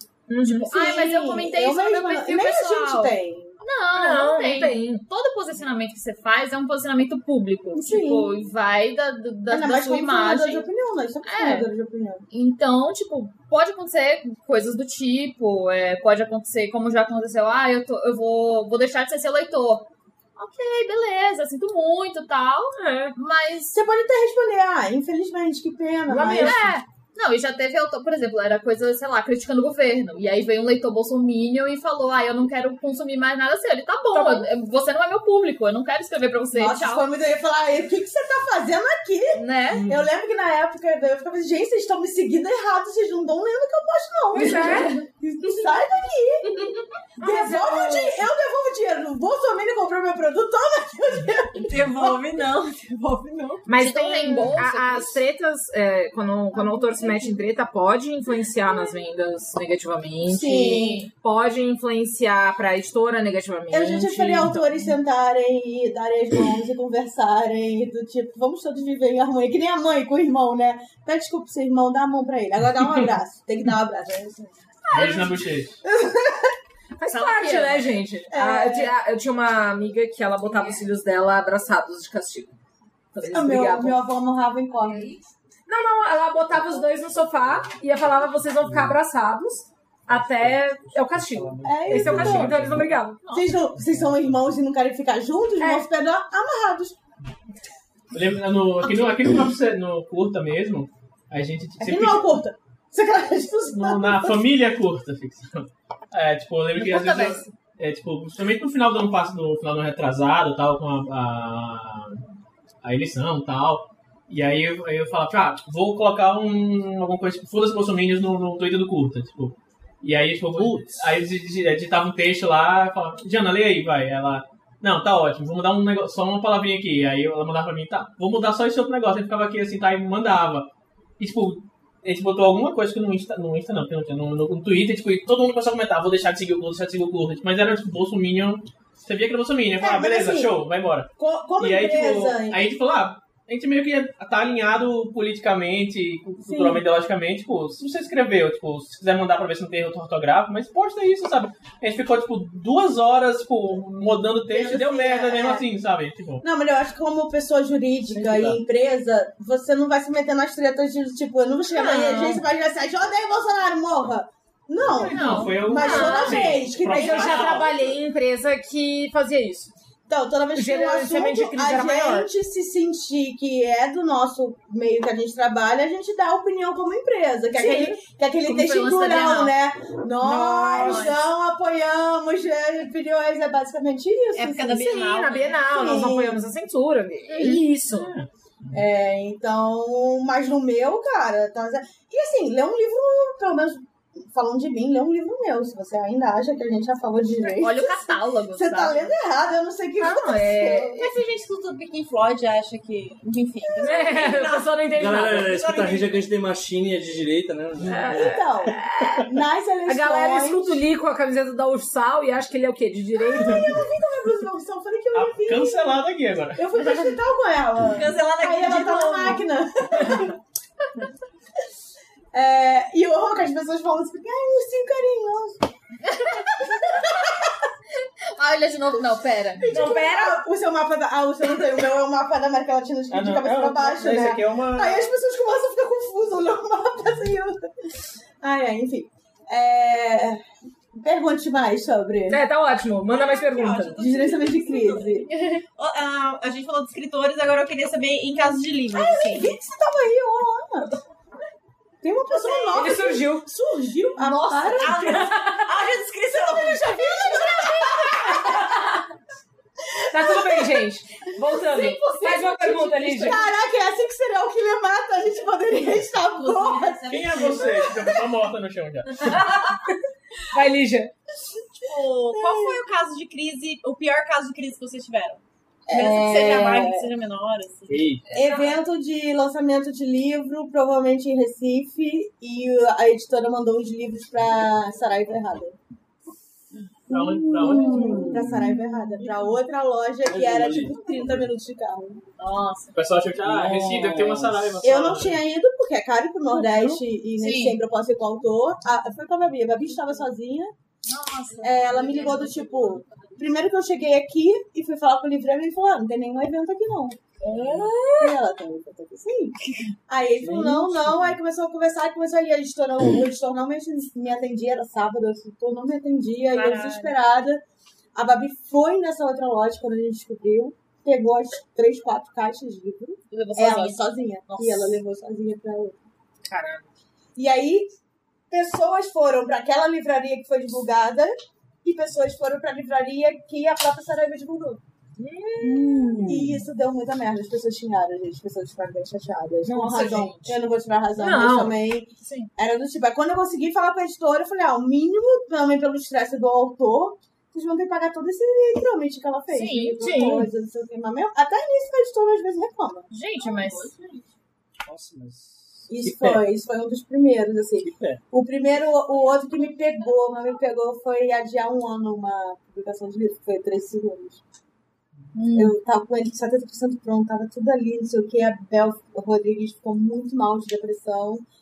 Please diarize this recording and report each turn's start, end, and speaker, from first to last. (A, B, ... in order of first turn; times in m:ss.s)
0:00.3-0:00.7 A
0:00.4-0:10.7 B
0:00.7-0:03.6 C
0:03.9-0:05.0 A
0:07.7-0:08.3 C
0:09.5-0:12.3 C
0:11.2-0:11.7 B
0:12.3-0:23.8 B
0:22.8-0:23.2 A
0:23.7-0:26.6 C
0:26.1-0:26.8 A
0:26.3-0:37.1 B
0:34.1-0:34.5 A
0:36.5-0:52.2 C
0:39.3-0:39.9 B
0:39.7-0:40.1 D
0:44.3-0:45.0 A
0:44.6-0:44.8 B
0:47.2-0:48.2 A
0:51.6-0:53.7 E
0:53.7-1:05.0 A
0:53.8-0:55.2 B
1:00.3-1:01.1 C
1:00.7-1:01.1 B
1:03.7-1:14.6 C
1:14.9-1:15.3 B
1:14.9-1:15.8 D
1:15.8-1:16.6 C
1:17.0-1:22.6 A
1:17.1-1:17.9 B
1:18.3-1:18.9 C
1:20.5-1:20.8 B
1:23.1-1:24.0 A
1:23.2-1:25.2 C
1:25.7-1:33.2 A
1:28.6-1:28.9 F
1:30.1-1:33.1 F
1:31.6-1:32.6 C
1:33.3-1:37.0 C
1:33.8-1:34.2 F
1:35.6-1:35.9 A
1:38.1-1:42.4 D
1:41.8-1:44.4 C
1:43.7-1:52.2 D
1:46.8-1:47.5 B
1:52.8-2:36.4 D
2:00.6-2:00.9 F
2:19.8-2:20.6 C
2:21.2-2:22.6 C
2:26.4-2:26.8 C
2:34.5-2:35.6 C
2:36.4-2:47.6 C
2:38.1-2:38.6 F
2:41.7-2:42.4 A
2:44.8-2:47.8 D
2:45.1-2:46.3 B
2:45.8-2:49.7 A
2:50.1-3:04.9 C
2:50.6-2:52.3 A
2:57.6-2:57.9 A
2:58.4-2:59.6 B
3:00.2-3:01.2 A
3:04.4-3:05.6 E
3:04.8-3:08.1 A
3:05.7-3:06.4 C
3:07.9-3:08.3 D
3:08.7-3:21.1 C
3:17.6-3:19.2 B
3:20.0-3:21.0 A
3:21.0-3:26.3 E
3:23.7-3:24.0 C
3:23.8-3:25.7 A
3:24.9-3:28.4 F
3:27.9-3:29.3 A
3:28.2-3:30.8 C
3:29.9-3:33.8 A
3:33.3-3:36.0 C
3:35.1-3:36.8 D
3:36.6-3:40.4 C
3:37.9-3:39.4 E
3:42.3-3:45.7 C
3:46.1-3:46.5 B
3:46.2-3:47.7 C
3:48.3-3:49.6 B
3:49.6-4:00.4 C
3:49.7-3:50.4 A
3:53.1-3:55.1 D
4:00.9-4:02.4 C
4:02.3-4:04.0 A
4:03.1-4:09.5 E
4:04.0-4:05.3 C
4:08.9-4:11.0 C
4:12.0-4:15.2 C
4:12.4-4:12.8 E
4:12.8-4:13.5 A
4:14.7-4:18.4 E
4:14.9-4:15.6 A
4:16.3-4:18.7 C
4:18.4-4:18.9 A
4:20.1-4:23.4 A
4:20.1-4:20.8 C
4:21.7-4:22.3 E
4:21.8-4:28.2 C
4:26.4-4:28.1 E
4:27.1-4:29.5 D
4:29.2-4:30.0 A
4:30.5-4:31.1 A
4:31.8-4:38.2 E
4:32.3-4:32.8 C
4:35.9-4:37.1 C
4:37.9-4:38.2 F
4:38.3-4:45.8 C
4:47.1-4:48.3 D
4:47.1-4:52.2 C
4:48.2-4:48.6 F
4:50.2-4:51.5 F
4:52.4-4:53.0 B
4:52.9-4:55.4 D
4:53.4-4:54.7 F
4:54.8-5:00.7 C
4:57.4-4:57.8 B
5:01.1-5:02.9 B
5:01.6-5:07.2 C
5:07.4-5:08.4 A
5:08.2-5:09.6 C
5:10.1-5:17.6 C
5:10.4-5:11.4 F
5:16.5-5:17.1 E
5:18.2-5:26.0 C
5:23.3-5:24.9 B
5:26.5-5:26.9 A
5:27.4-5:27.9 C
5:28.5-5:34.8 C
5:35.2-5:36.6 A
5:35.6-5:53.1 C
5:35.9-5:36.3 F
5:39.6-5:40.6 A
5:41.2-5:41.8 A
5:42.2-5:42.5 B
5:49.5-5:50.4 B
5:50.0-5:50.3 A
5:53.1-5:53.9 B
5:53.4-5:54.2 E
5:54.9-5:56.5 F
5:55.9-6:04.4 C
5:57.8-5:58.2 F
6:05.3-6:05.8 B
6:05.5-6:11.4 C